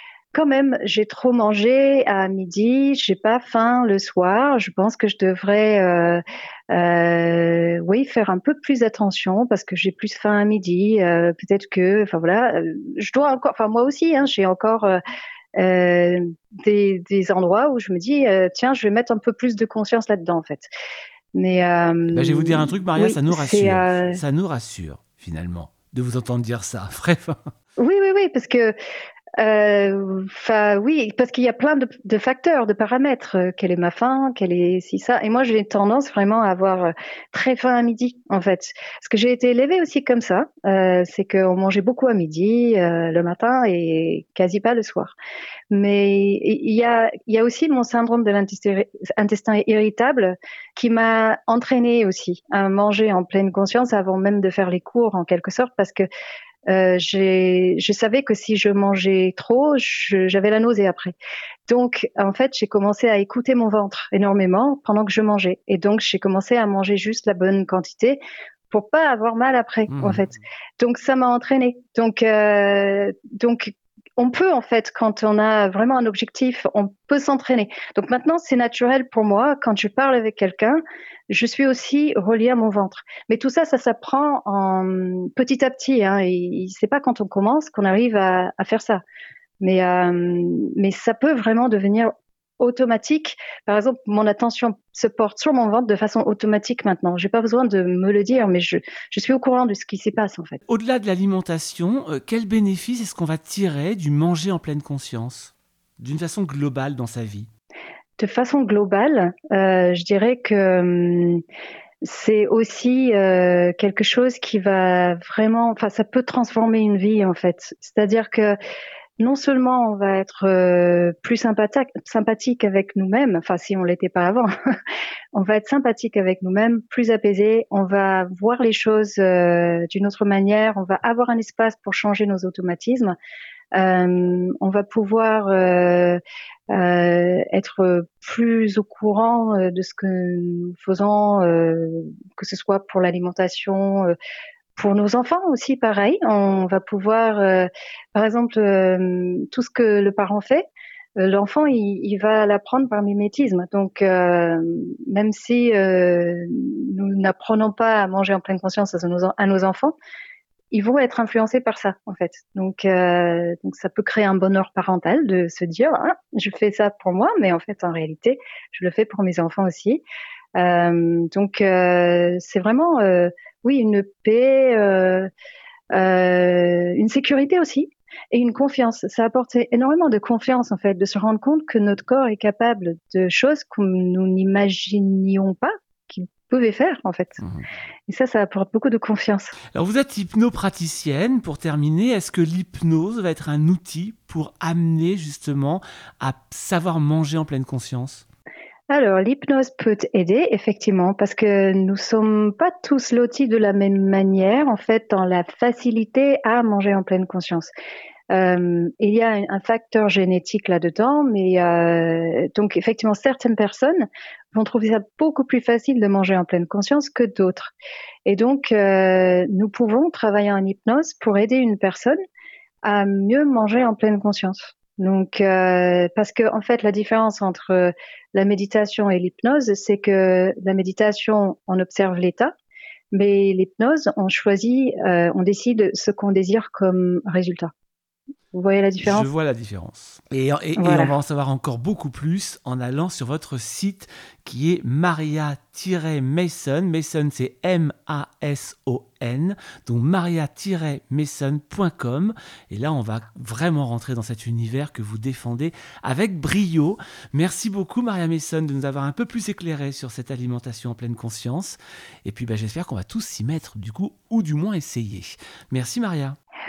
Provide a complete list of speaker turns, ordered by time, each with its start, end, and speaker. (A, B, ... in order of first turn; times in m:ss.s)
0:00.3-0:15.0 A
0:15.6-0:20.7 A
0:21.3-0:24.2 A
0:22.1-0:27.4 B
0:27.8-0:28.7 A
0:29.4-0:45.1 A
0:45.7-0:56.0 A
0:56.7-1:01.1 A
1:01.7-1:29.0 A
1:09.9-1:10.2 B
1:29.6-1:40.6 A
1:40.7-1:47.5 B
1:48.2-1:51.4 A
1:52.0-1:58.6 A
1:59.2-2:04.5 A
2:05.3-2:13.1 A
2:13.7-2:16.2 A
2:16.7-2:24.1 A
2:24.8-2:39.9 A
2:40.7-2:50.0 A
2:50.5-2:55.3 A
2:55.9-3:07.4 A
3:08.1-3:09.5 A
3:09.7-3:18.2 B
3:18.9-3:27.7 A
3:28.3-3:37.7 A
3:38.2-3:42.2 A
3:42.8-3:52.5 A
3:53.1-3:57.7 A
3:58.5-3:59.3 A
3:59.0-4:26.4 B
4:00.8-4:01.1 A